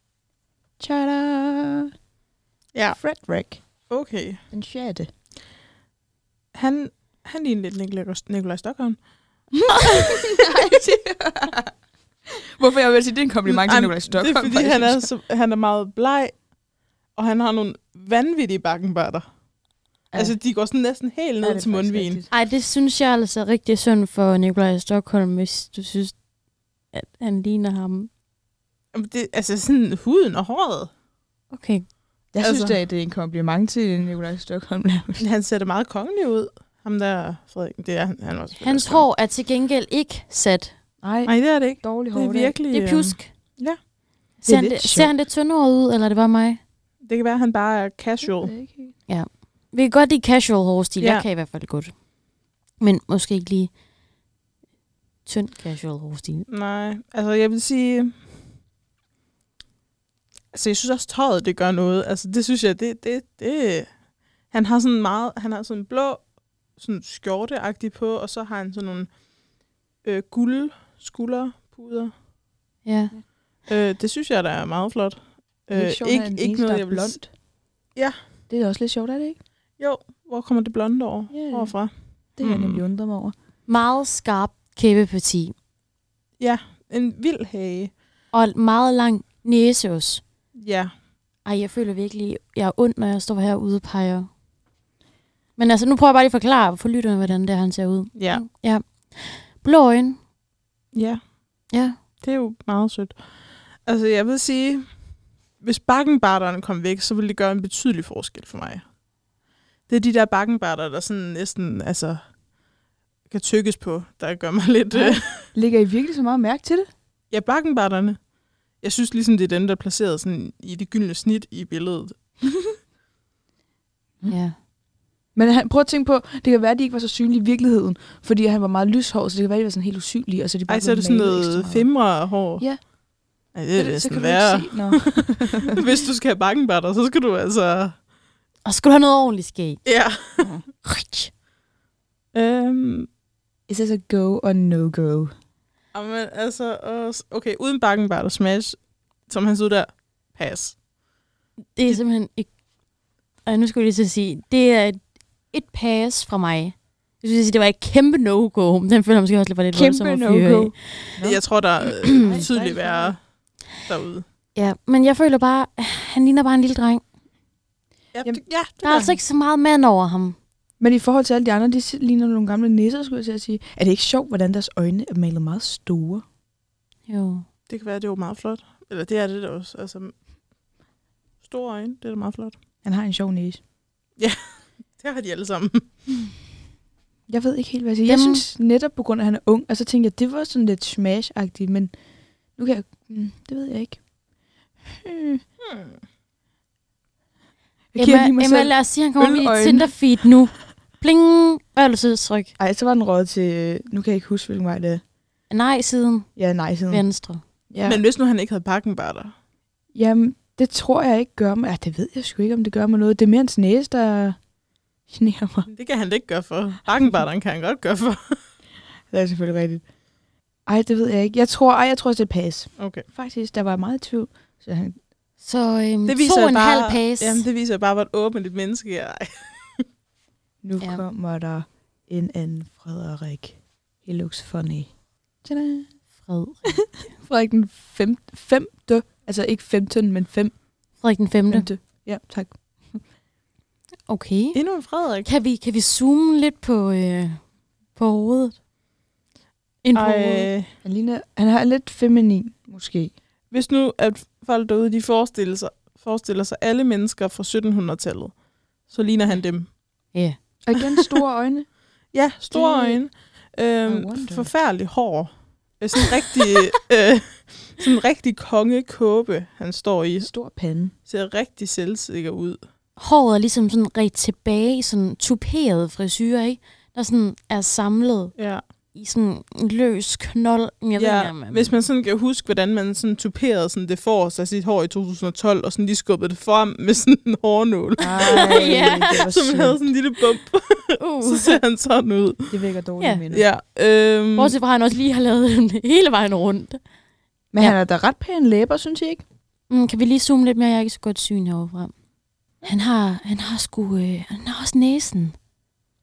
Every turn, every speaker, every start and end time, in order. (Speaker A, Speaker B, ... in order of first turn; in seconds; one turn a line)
Speaker A: 0.8-1.9
Speaker B: 2.7-3.0
Speaker A: 2.9-3.6
Speaker B: 3.9-4.4
Speaker A: 4.5-5.1
Speaker B: 6.5-9.0
Speaker A: 9.5-11.7
Speaker A: 12.3-15.1
Speaker B: 13.5-16.5
Speaker B: 17.1-19.3
Speaker B: 20.1-22.2
Speaker A: 21.4-22.3
Speaker C: 22.3-26.2
Speaker C: 26.9-28.1
Speaker B: 28.9-30.9
Speaker C: 31.5-31.9
Speaker A: 32.3-35.3
Speaker B: 32.4-32.8
Speaker B: 35.2-39.1
Speaker C: 38.6-40.8
Speaker A: 41.0-42.6
Speaker B: 41.3-43.8
Speaker C: 42.7-43.3
Speaker A: 44.4-45.1
Speaker C: 44.4-46.6
Speaker B: 47.0-48.5
Speaker A: 48.2-49.0
Speaker C: 49.1-52.0
Speaker B: 51.0-51.2
Speaker C: 52.8-53.7
Speaker C: 55.2-56.5
Speaker B: 56.5-58.2
Speaker B: 60.5-69.1
Speaker B: 70.0-72.1
Speaker C: 72.8-73.2
Speaker B: 73.7-77.2
Speaker A: 75.7-77.3
Speaker A: 78.5-79.4
Speaker B: 79.8-82.8
Speaker A: 81.3-81.8
Speaker A: 82.4-83.3
Speaker C: 83.7-85.5
Speaker B: 86.4-87.9
Speaker C: 88.3-90.2
Speaker B: 90.5-90.9
Speaker C: 91.5-94.3
Speaker C: 95.6-100.2
Speaker B: 98.2-98.5
Speaker B: 100.9-101.3
Speaker C: 101.7-102.0
Speaker B: 102.2-105.0
Speaker B: 105.6-108.8
Speaker B: 109.9-112.2
Speaker B: 113.3-115.5
Speaker A: 114.9-116.9
Speaker B: 117.3-122.6
Speaker C: 124.3-124.6
Speaker A: 125.3-132.8
Speaker B: 130.7-132.7
Speaker B: 133.5-138.0
Speaker A: 133.8-135.8
Speaker C: 138.7-139.8
Speaker B: 139.8-140.5
Speaker A: 140.4-140.7
Speaker C: 140.8-141.3
Speaker B: 142.3-143.1
Speaker A: 143.7-145.3
Speaker B: 145.9-150.8
Speaker C: 151.8-152.5
Speaker C: 153.4-161.2
Speaker A: 159.7-163.2
Speaker B: 161.2-164.2
Speaker C: 164.6-167.0
Speaker B: 168.1-169.2
Speaker C: 168.8-170.4
Speaker A: 170.8-176.2
Speaker C: 177.1-177.5
Speaker B: 177.7-180.1
Speaker B: 181.4-182.6
Speaker A: 182.8-183.6
Speaker B: 184.2-185.8
Speaker A: 187.3-191.9
Speaker C: 188.1-188.4
Speaker A: 192.6-194.1
Speaker A: 194.8-195.4
Speaker B: 195.6-196.0
Speaker A: 197.9-200.0
Speaker C: 198.0-202.5
Speaker A: 202.6-205.0
Speaker C: 205.5-206.3
Speaker A: 206.4-207.0
Speaker C: 206.9-207.4
Speaker A: 207.7-208.0
Speaker B: 207.8-209.3
Speaker A: 209.9-214.4
Speaker A: 215.1-215.7
Speaker B: 215.7-218.4
Speaker A: 219.1-219.8
Speaker A: 220.7-225.0
Speaker B: 222.8-223.1
Speaker C: 225.4-227.4
Speaker B: 226.1-229.8
Speaker A: 230.6-235.9
Speaker C: 230.8-231.0
Speaker C: 236.2-236.9
Speaker A: 236.7-240.6
Speaker C: 241.0-241.7
Speaker A: 241.5-243.0
Speaker C: 244.1-244.6
Speaker B: 244.5-245.3
Speaker C: 245.2-248.6
Speaker C: 249.8-250.5
Speaker B: 249.9-250.7
Speaker A: 250.8-253.1
Speaker B: 253.5-259.8
Speaker C: 260.1-260.4
Speaker A: 260.6-261.7
Speaker B: 260.9-261.2
Speaker B: 262.1-270.3
Speaker A: 262.5-263.0
Speaker A: 263.9-264.5
Speaker A: 270.2-270.9
Speaker B: 271.1-272.6
Speaker C: 273.0-278.4
Speaker B: 278.4-278.6
Speaker C: 278.9-281.8
Speaker B: 281.0-292.6
Speaker A: 288.0-289.9
Speaker C: 288.1-289.2
Speaker C: 291.0-291.6
Speaker A: 292.5-293.5
Speaker B: 293.3-294.6
Speaker C: 294.4-296.8
Speaker A: 297.5-299.2
Speaker C: 299.7-301.9
Speaker C: 302.6-305.4